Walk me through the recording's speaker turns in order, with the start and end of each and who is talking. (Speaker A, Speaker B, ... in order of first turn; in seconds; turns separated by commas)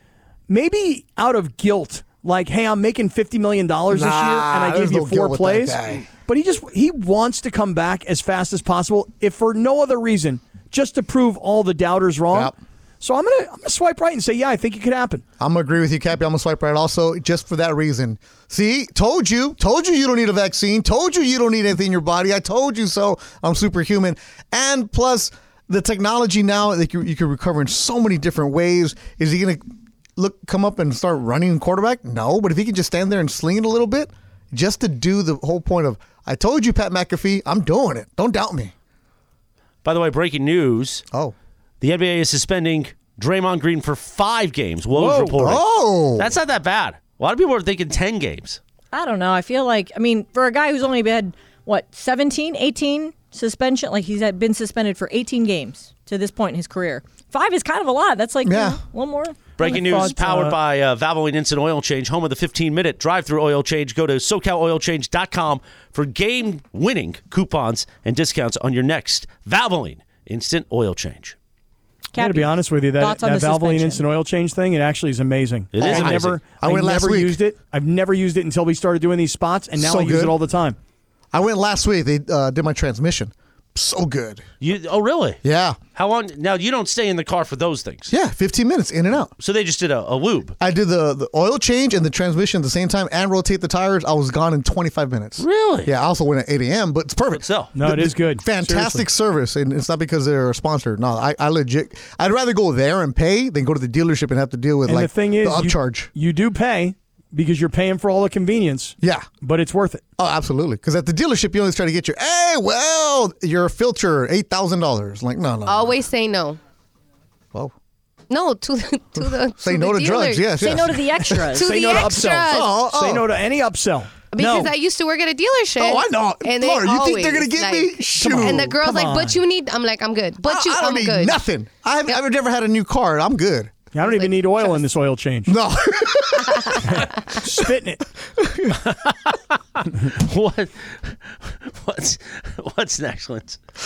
Speaker A: 0.5-15.2, Speaker B: 3.9-6.1, Speaker B: 15.4-29.6, Speaker B: 30.2-38.7, Speaker C: 39.9-41.0, Speaker C: 41.8-48.6, Speaker A: 45.0-45.4, Speaker B: 45.0-46.3, Speaker D: 48.9-60.1, Speaker B: 58.5-58.8, Speaker C: 59.6-71.3, Speaker A: 59.6-60.6, Speaker D: 72.1-74.0, Speaker A: 72.2-80.8, Speaker C: 75.7-76.4, Speaker B: 75.8-77.4, Speaker B: 79.8-80.4, Speaker B: 81.3-84.4, Speaker C: 84.6-85.4, Speaker B: 85.4-85.8, Speaker C: 86.0-88.1, Speaker B: 88.1-89.3, Speaker C: 89.4-90.5, Speaker B: 90.6-106.1, Speaker C: 95.4-95.9, Speaker C: 97.3-97.7, Speaker A: 97.7-99.0, Speaker A: 104.8-110.0, Speaker B: 109.0-109.3, Speaker B: 110.2-116.0, Speaker E: 115.7-116.6, Speaker E: 118.3-120.8, Speaker B: 119.6-121.5, Speaker D: 120.6-121.9, Speaker E: 121.5-122.8, Speaker A: 121.6-124.8, Speaker B: 122.4-123.3, Speaker E: 124.3-131.4, Speaker B: 125.8-128.8, Speaker A: 128.2-129.4, Speaker B: 130.4-133.8, Speaker A: 133.9-135.5, Speaker E: 134.0-134.8, Speaker B: 135.5-137.1, Speaker E: 136.5-136.8, Speaker A: 136.8-138.1, Speaker B: 138.4-138.8, Speaker C: 138.8-143.6